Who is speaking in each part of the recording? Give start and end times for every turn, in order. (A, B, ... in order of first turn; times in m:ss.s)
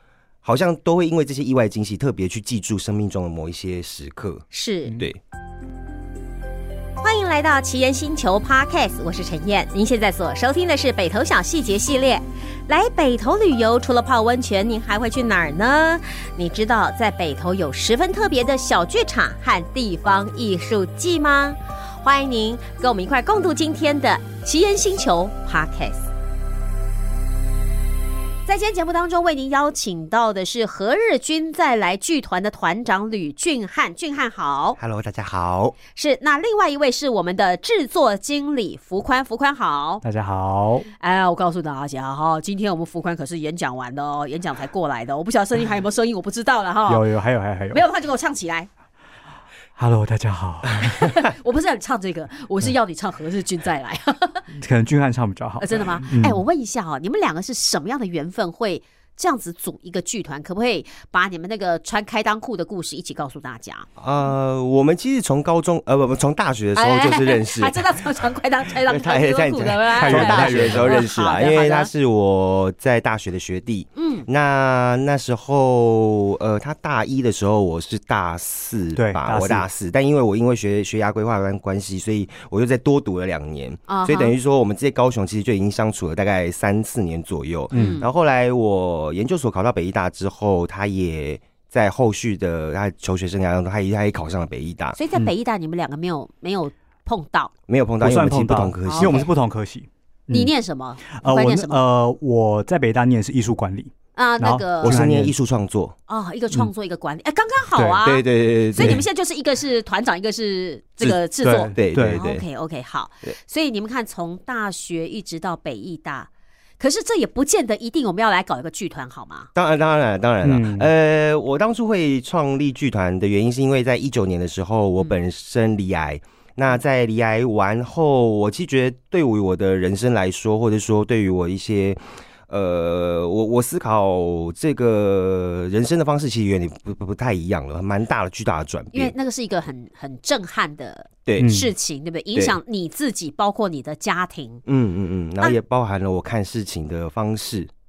0:00.4-0:04.4 A
0:04.5-0:05.0 B
0:07.0-0:26.1 B
0:28.4-0:34.8 B
0:34.8-0:35.8 A
0:36.0-0:40.0 B
0:40.0-0:40.9 C
0:41.0-0:47.0 B
0:46.9-0:47.8 C
0:47.7-0:48.7 B
0:49.8-0:51.2 C
0:50.8-0:54.4 B
0:54.5-0:56.4 C
0:55.6-1:03.9 B
1:04.0-1:08.2 A
1:06.8-1:11.9 B
1:08.7-1:35.0 A
1:09.9-1:11.0 C
1:14.0-1:14.2 B
1:18.9-1:19.7 C
1:23.9-1:24.3 B
1:27.7-1:28.1 C
1:27.7-1:28.1 B
1:35.0-1:37.5 B
1:37.7-1:39.2 A
1:38.0-1:40.5 C
1:38.9-1:39.3 B
1:40.3-1:41.8 B
1:41.1-1:45.3 C
1:44.2-1:45.0 B
1:44.8-1:45.9 A
1:46.1-1:59.5 B
1:47.7-1:48.0 C
1:48.0-1:49.0 A
1:48.8-1:49.0 C
1:51.0-1:52.2 C
1:51.7-1:52.4 A
1:59.6-2:19.1 A
2:00.4-2:00.9 C
2:18.9-2:24.6 B
2:21.4-2:21.7 C
2:24.7-2:27.7 A